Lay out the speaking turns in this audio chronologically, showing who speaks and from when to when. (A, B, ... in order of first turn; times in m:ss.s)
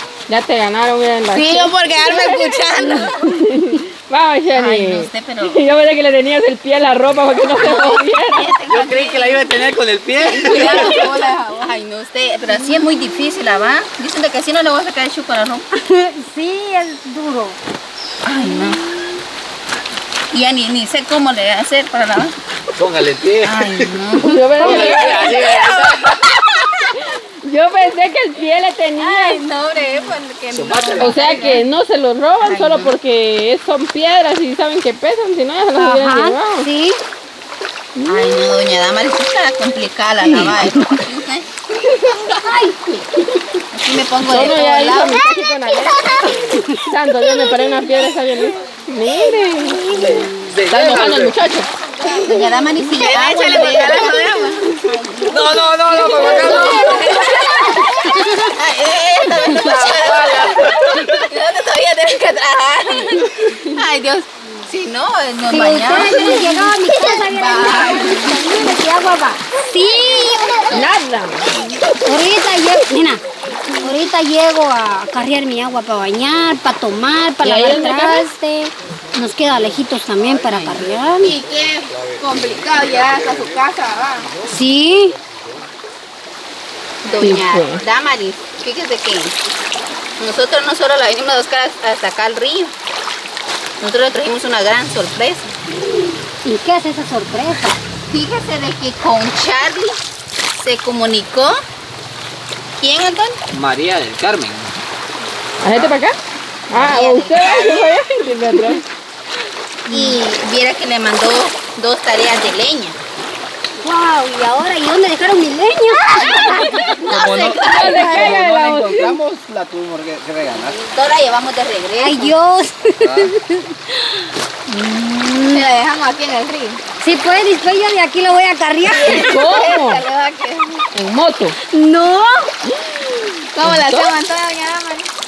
0:00.3-0:01.7 A
0:01.3-0:03.3 B
0:03.2-0:08.5 A
0:04.5-0:05.6 B
0:07.5-0:09.7 B
0:08.7-0:11.0 C
0:10.2-0:15.7 B
0:15.8-0:17.6 D
0:18.2-0:18.8 B
0:20.3-0:22.3 B
0:22.8-0:23.9 C
0:23.4-0:26.6 B
0:24.2-0:25.4 A
0:24.6-0:26.1 C
0:26.9-0:29.4 A
0:29.0-0:31.7 B
0:30.5-0:31.2 C
0:31.0-0:36.7 A
0:32.4-0:32.9 B
0:35.8-0:37.0 D
0:38.0-0:38.4 A
0:38.1-0:41.5 B
0:40.3-0:40.6 C
0:42.3-0:43.0 D
0:43.7-0:46.6 B
0:44.2-0:49.9 A
0:47.3-0:48.5 B
0:49.6-0:50.3 D
0:49.9-0:51.3 C
0:50.7-0:52.4 A
0:52.0-1:08.6 B
0:53.0-0:53.4 C
0:53.7-0:54.5 D
0:55.2-0:57.3 C
0:55.9-0:58.5 D
0:59.5-0:59.8 D
1:00.0-1:01.3 C
1:05.5-1:10.8 D
1:10.1-1:10.5 B
1:10.7-1:11.5 A
1:12.0-1:13.2 D
1:13.8-1:21.3 D
1:17.4-1:18.3 A
1:20.5-1:24.3 B
1:22.4-1:23.4 C
1:24.4-1:25.2 D
1:27.0-1:29.3 B
1:27.1-1:27.8 A
1:30.2-1:32.7 B
1:33.8-1:35.5 B
1:36.4-1:37.8 D
1:38.1-1:40.0 B
1:40.6-1:41.6 B
1:42.8-1:43.4 B
1:43.5-1:44.7 C
1:45.6-1:46.2 A
1:45.7-1:45.9 C
1:46.7-1:48.8 A
1:46.7-1:48.0 B
1:49.8-1:53.0 B
1:49.9-1:50.2 D
1:53.8-1:57.1 D
1:56.4-1:58.4 B
1:57.1-2:00.8 C
1:57.6-1:59.1 A
2:00.5-2:02.3 B
2:02.0-2:05.7 D
2:03.0-2:03.3 C
2:05.4-2:06.8 B
2:07.0-2:09.5 D
2:08.8-2:10.8 B
2:09.0-2:10.0 A
2:10.9-2:11.6 A
2:11.8-2:12.3 D
2:13.5-2:15.1 B
2:13.6-2:14.1 A